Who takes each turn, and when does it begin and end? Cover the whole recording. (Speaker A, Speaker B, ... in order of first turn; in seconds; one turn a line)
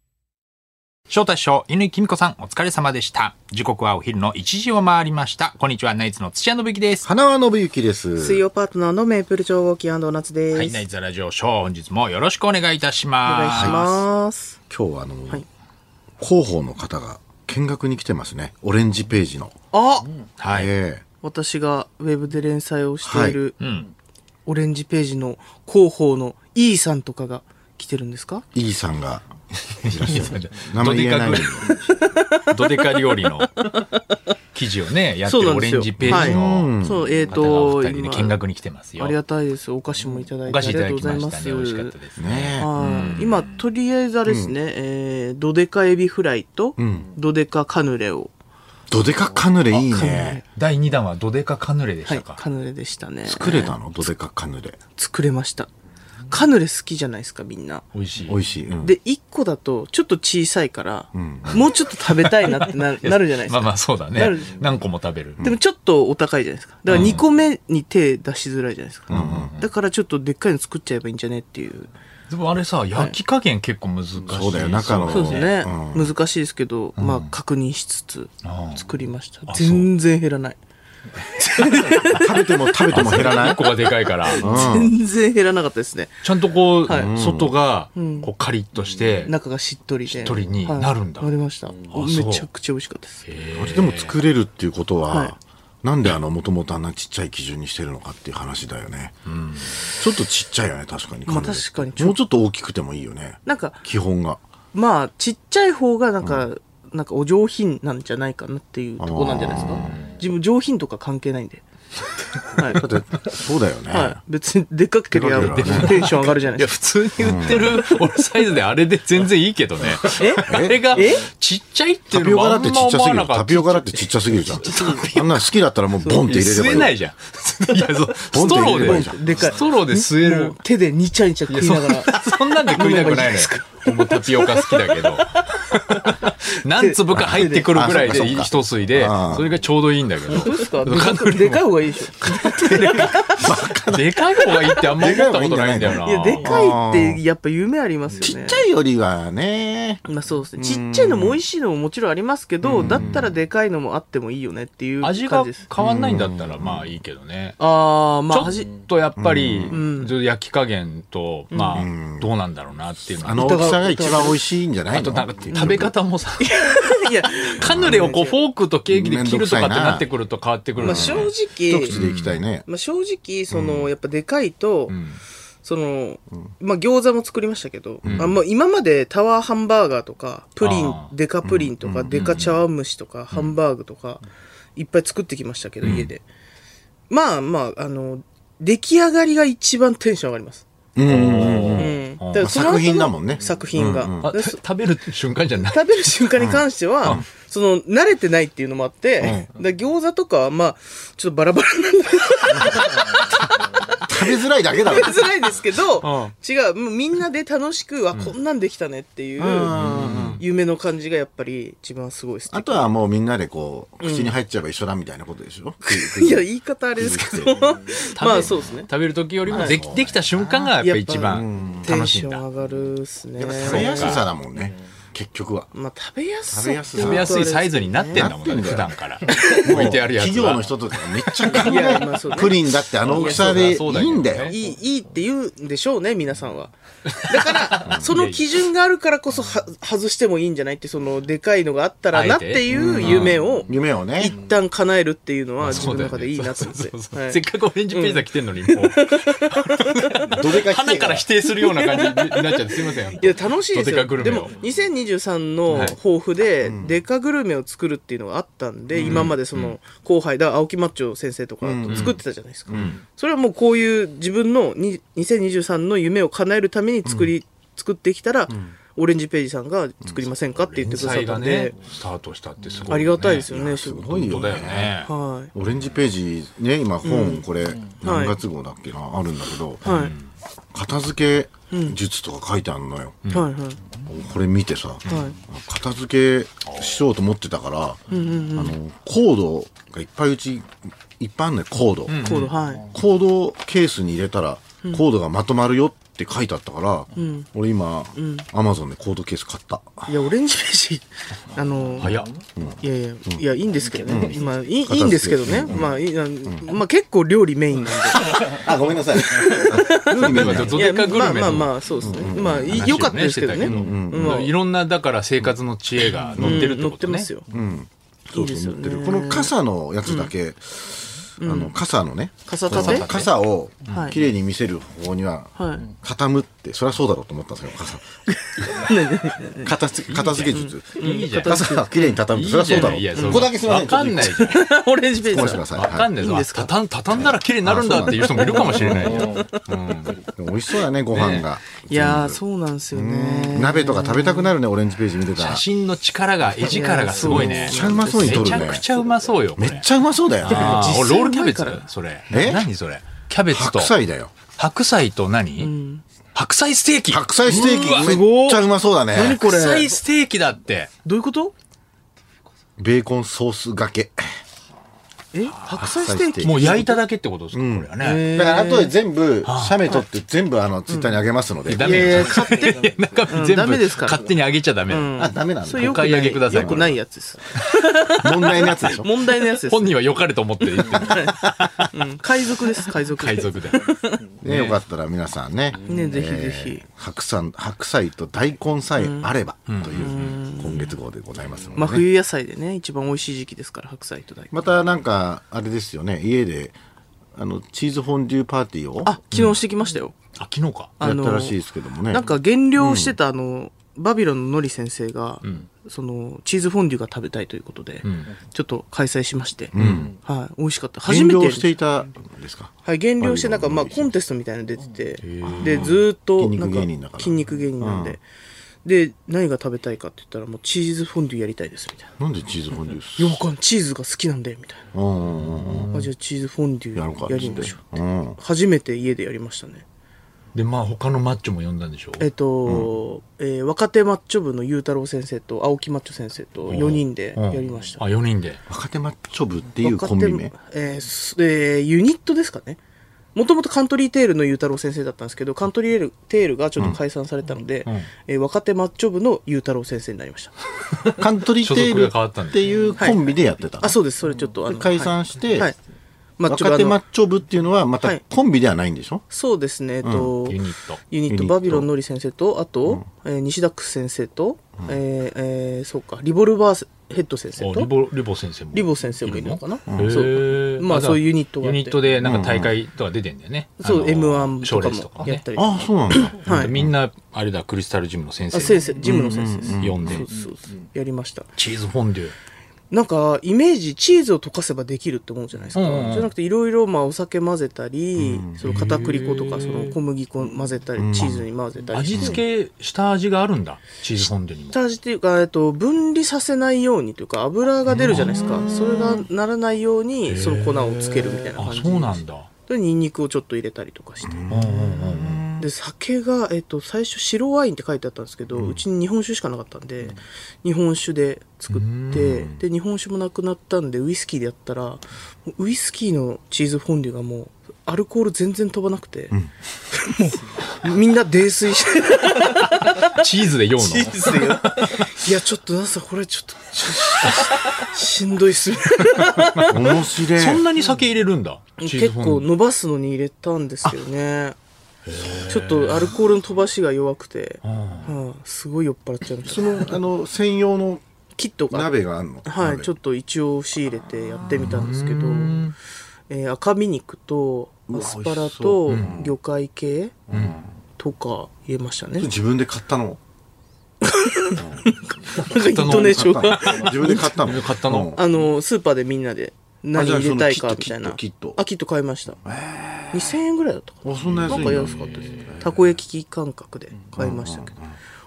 Speaker A: 1.1-7.0
Speaker B: 7.0-8.4
Speaker C: 8.2-10.8
Speaker A: 10.5-13.9
Speaker C: 13.2-14.6
Speaker B: 13.5-13.8
Speaker B: 14.7-15.4
Speaker B: 16.2-19.5
Speaker C: 19.7-20.1
Speaker A: 20.4-20.7
Speaker B: 20.5-21.0
Speaker C: 21.2-23.6
Speaker B: 23.0-23.4
Speaker A: 23.6-23.9
Speaker C: 24.4-28.4
Speaker B: 28.5-31.7
Speaker A: 29.8-31.8
Speaker C: 31.9-33.0
Speaker A: 32.4-33.6
Speaker C: 33.6-34.0
Speaker A: 34.5-36.7
Speaker C: 35.2-38.4
Speaker B: 36.0-37.1
Speaker A: 37.3-39.2
Speaker C: 39.0-41.9
Speaker A: 40.5-43.6
Speaker B: 42.1-43.1
Speaker C: 42.6-48.3
Speaker B: 44.3-44.5
Speaker B: 46.8-47.1
Speaker B: 48.9-50.4
Speaker C: 49.7-50.4
Speaker A: 50.5-52.4
Speaker C: 52.1-53.8
Speaker B: 53.2-54.8
Speaker C: 55.0-55.7
Speaker C: 56.3-57.8
Speaker A: 57.9-58.4
Speaker B: 58.3-59.0
Speaker C: 58.8-64.6
Speaker B: 61.1-61.7
Speaker A: 62.0-65.4
Speaker C: 65.4-71.9
Speaker A: 66.9-67.2
Speaker A: 69.1-69.7
Speaker B: 69.1-69.5
Speaker A: 72.3-75.6
Speaker B: 74.3-76.1
Speaker C: 75.1-80.6
Speaker A: 77.0-77.3
Speaker A: 78.4-78.8
Speaker A: 79.5-79.9
Speaker C: 81.2-86.2
Speaker B: 82.0-83.8
Speaker A: 82.9-84.5
Speaker B: 84.3-84.9
Speaker A: 86.2-89.3
Speaker C: 86.8-87.1
Speaker B: 86.9-87.6
Speaker C: 88.0-88.3
Speaker C: 89.2-93.2
Speaker A: 90.1-91.3
Speaker A: 91.9-92.5
Speaker A: 93.2-94.2
Speaker B: 93.5-99.2
Speaker C: 95.1-95.3
Speaker A: 99.2-99.8
Speaker B: 99.8-104.4
Speaker C: 101.3-102.2
Speaker C: 103.4-103.8
Speaker C: 104.7-111.6
Speaker B: 109.0-110.1
Speaker A: 109.5-110.2
Speaker C: 112.4-112.9
Speaker B: 112.7-114.2
Speaker C: 113.9-118.0
Speaker B: 115.1-116.1
Speaker A: 115.4-125.5
Speaker B: 117.2-117.7
Speaker C: 120.1-121.3
Speaker B: 120.4-120.9
Speaker B: 122.1-127.0
Speaker C: 124.5-125.1
Speaker C: 126.0-126.2
Speaker A: 126.2-130.6
Speaker B: 128.3-129.2
Speaker C: 128.3-138.4
Speaker A: 131.5-141.7
Speaker B: 137.1-139.6
Speaker C: 140.3-143.5
Speaker A: 142.3-143.2
Speaker B: 142.3-144.2
Speaker A: 143.9-146.6
Speaker C: 144.4-145.1
Speaker B: 144.9-147.2
Speaker C: 146.0-148.7
Speaker B: 148.2-150.0
Speaker C: 150.0-155.7
Speaker B: 150.6-151.4
Speaker B: 152.6-153.3
Speaker A: 152.8-153.2
Speaker A: 155.0-157.6
Speaker B: 155.8-156.9
Speaker C: 157.6-158.7
Speaker A: 158.3-163.7
Speaker B: 159.2-159.8
Speaker C: 159.7-160.1
Speaker C: 161.5-161.9
Speaker B: 161.7-162.3
Speaker B: 163.2-165.9
Speaker C: 163.3-164.4
Speaker A: 164.9-166.7
Speaker C: 165.5-168.3
Speaker A: 167.3-171.3
Speaker B: 167.6-168.1
Speaker B: 168.9-170.1
Speaker B: 170.8-172.7
Speaker C: 170.8-171.9
Speaker A: 171.9-172.4
Speaker C: 172.7-175.0
Speaker B: 173.5-173.9
Speaker A: 174.9-175.2
Speaker C: 175.6-184.2
Speaker B: 178.0-178.3
Speaker A: 178.0-178.3
Speaker A: 180.6-181.1
Speaker B: 181.4-182.4
Speaker A: 182.1-182.6
Speaker C: 184.8-186.2
Speaker A: 185.8-186.1
Speaker C: 187.1-190.7
Speaker B: 190.9-194.3
Speaker A: 191.0-192.4
Speaker C: 191.8-194.6
Speaker A: 194.2-196.1
Speaker C: 195.7-209.7
Speaker B: 199.2-199.4
Speaker B: 202.5-202.9
Speaker B: 204.0-205.3
Speaker A: 206.0-206.3
Speaker B: 209.4-210.4
Speaker A: 209.7-210.4
Speaker C: 210.4-212.9
Speaker B: 212.5-217.6
Speaker C: 214.0-214.3
Speaker C: 215.8-218.9
Speaker A: 218.2-222.4
Speaker B: 219.4-220.7
Speaker C: 219.5-219.8
Speaker C: 220.8-224.2
Speaker B: 221.2-221.9
Speaker B: 223.3-225.7
Speaker A: 223.6-224.2
Speaker C: 225.7-228.3
Speaker B: 226.5-227.6
Speaker A: 226.9-232.0
Speaker B: 228.1-228.9
Speaker C: 229.3-229.7
Speaker B: 229.5-234.6
Speaker C: 231.4-233.7
Speaker A: 233.1-234.6
Speaker C: 234.4-247.4
Speaker A: 237.1-238.5
Speaker A: 242.1-243.4
Speaker B: 242.7-244.3
Speaker A: 245.6-254.5
Speaker C: 247.9-250.3
Speaker B: 250.3-251.2
Speaker C: 251.6-271.8
Speaker A: 255.7-255.9
Speaker B: 256.6-256.9
Speaker B: 258.9-259.4
Speaker A: 259.0-259.8
Speaker B: 261.6-262.1
Speaker A: 261.9-263.0
Speaker B: 262.7-263.0
Speaker B: 267.0-267.3
Speaker A: 270.5-275.1
Speaker C: 272.9-275.5
Speaker B: 273.2-275.0
Speaker B: 275.5-279.9
Speaker C: 277.0-277.4
Speaker C: 278.0-278.4
Speaker C: 279.8-280.1
Speaker A: 279.8-280.3
Speaker B: 280.7-283.2
Speaker C: 281.7-282.0
Speaker A: 283.2-283.5
Speaker C: 283.3-283.8
Speaker B: 284.0-292.4
Speaker C: 285.1-285.4
Speaker A: 286.6-287.0
Speaker C: 288.1-288.8
Speaker A: 292.1-292.6
Speaker C: 292.1-292.9
Speaker B: 292.9-300.1
Speaker C: 297.1-297.5
Speaker C: 298.1-298.4
Speaker C: 300.1-302.2
Speaker A: 302.0-302.3
Speaker C: 302.8-314.5
Speaker B: 304.0-306.6
Speaker B: 308.0-310.9
Speaker A: 310.1-317.3
Speaker B: 312.0-314.5
Speaker C: 316.3-317.5
Speaker B: 316.4-316.6
Speaker B: 317.5-328.0
Speaker C: 318.3-319.5
Speaker C: 320.0-320.3
Speaker C: 321.4-321.7
Speaker C: 322.4-323.2
Speaker A: 322.7-323.3
Speaker A: 323.8-324.2
Speaker C: 323.9-324.2
Speaker C: 325.6-325.9
Speaker C: 328.5-329.7
Speaker B: 329.5-334.5
Speaker A: 330.1-334.7
Speaker C: 330.5-332.2
Speaker C: 332.7-333.5
Speaker C: 334.3-336.7
Speaker B: 335.3-336.2
Speaker A: 335.7-340.2
Speaker B: 337.1-339.3
Speaker C: 338.3-339.8
Speaker B: 340.2-342.4
Speaker A: 341.1-341.5
Speaker C: 341.9-344.5
Speaker B: 342.9-345.7
Speaker A: 345.4-349.9
Speaker C: 346.6-348.7
Speaker B: 347.2-348.9
Speaker B: 349.6-350.9
Speaker A: 350.4-353.9
Speaker C: 350.4-351.9
Speaker B: 352.3-352.6
Speaker B: 353.5-354.3
Speaker A: 354.5-355.7
Speaker C: 355.6-356.0
Speaker A: 356.3-358.3
Speaker B: 357.1-359.4
Speaker C: 357.4-360.0
Speaker A: 359.2-360.9
Speaker C: 361.0-361.5
Speaker B: 362.8-364.4
Speaker C: 365.3-367.0
Speaker A: 365.5-368.3
Speaker B: 365.8-366.8
Speaker B: 367.5-372.3
Speaker C: 368.0-368.9
Speaker A: 369.4-369.8
Speaker A: 371.6-375.1
Speaker C: 371.8-374.3
Speaker C: 374.9-380.0
Speaker B: 375.1-376.9
Speaker A: 375.7-377.0
Speaker B: 378.2-379.1
Speaker A: 379.4-381.9
Speaker C: 380.8-384.2
Speaker A: 383.1-383.9
Speaker A: 384.4-384.8
Speaker B: 384.4-392.0
Speaker C: 385.8-386.8
Speaker C: 389.0-389.3
Speaker A: 389.7-390.3
Speaker C: 390.0-390.9
Speaker C: 391.7-394.5
Speaker B: 394.5-396.8
Speaker B: 397.3-399.1
Speaker C: 399.0-400.1
Speaker A: 400.4-400.9
Speaker C: 401.0-411.8
Speaker B: 401.0-403.2
Speaker A: 408.0-408.3
Speaker B: 409.7-410.1
Speaker A: 409.8-410.1
Speaker B: 411.1-414.1
Speaker C: 412.8-418.2
Speaker A: 415.2-416.0
Speaker B: 415.4-418.2
Speaker C: 418.8-422.1
Speaker B: 422.2-423.4
Speaker C: 423.1-424.9
Speaker B: 424.9-425.9
Speaker A: 425.4-426.1
Speaker C: 425.9-427.8
Speaker B: 426.9-428.4
Speaker C: 428.4-429.8
Speaker A: 430.5-432.3
Speaker C: 432.2-438.0
Speaker A: 436.7-438.6
Speaker B: 438.7-440.5
Speaker C: 439.8-442.8
Speaker C: 443.3-450.5
Speaker B: 451.1-454.0
Speaker A: 451.4-452.7
Speaker C: 453.8-455.8
Speaker B: 454.6-455.7
Speaker C: 456.4-457.0
Speaker B: 456.5-459.2
Speaker C: 459.3-467.9
Speaker B: 460.0-460.3
Speaker A: 460.4-461.0
Speaker B: 461.3-461.9
Speaker A: 467.6-475.4
Speaker C: 468.7-472.0
Speaker B: 469.9-470.2
Speaker B: 472.2-472.7
Speaker C: 473.8-476.7
Speaker B: 475.5-476.9
Speaker A: 476.4-480.3
Speaker C: 478.5-481.5
Speaker B: 479.0-480.2
Speaker A: 481.6-482.3
Speaker C: 482.9-492.4
Speaker A: 485.7-486.3
Speaker B: 488.2-488.6
Speaker A: 488.6-490.0
Speaker B: 491.0-491.4
Speaker A: 491.9-494.8
Speaker B: 492.1-492.4
Speaker C: 494.7-504.7
Speaker A: 497.9-498.6
Speaker A: 500.3-502.5
Speaker B: 504.2-505.6
Speaker A: 504.5-505.5
Speaker C: 505.6-519.4
Speaker B: 508.5-508.8
Speaker A: 511.7-512.5
Speaker B: 512.2-512.6
Speaker C: 519.9-523.2
Speaker A: 522.9-525.1
Speaker C: 523.8-529.9
Speaker A: 529.5-532.5
Speaker B: 529.7-530.6
Speaker C: 531.8-534.6
Speaker A: 535.0-536.1
Speaker C: 535.5-540.0
Speaker A: 537.6-538.1
Speaker B: 539.4-541.0
Speaker C: 541.4-541.9
Speaker B: 541.7-542.9
Speaker C: 542.4-545.6
Speaker A: 544.4-545.7
Speaker C: 546.3-550.2
Speaker B: 547.9-549.3
Speaker A: 548.9-549.2
Speaker B: 550.3-550.6
Speaker A: 550.3-550.6
Speaker C: 551.0-552.3
Speaker B: 552.2-553.2
Speaker C: 554.0-557.4
Speaker B: 554.5-554.8
Speaker A: 555.4-558.2
Speaker B: 555.8-558.2
Speaker C: 558.1-562.4
Speaker B: 559.9-561.6
Speaker B: 562.4-563.4
Speaker C: 563.1-567.7
Speaker B: 564.0-565.7
Speaker A: 564.3-565.6
Speaker B: 567.1-567.9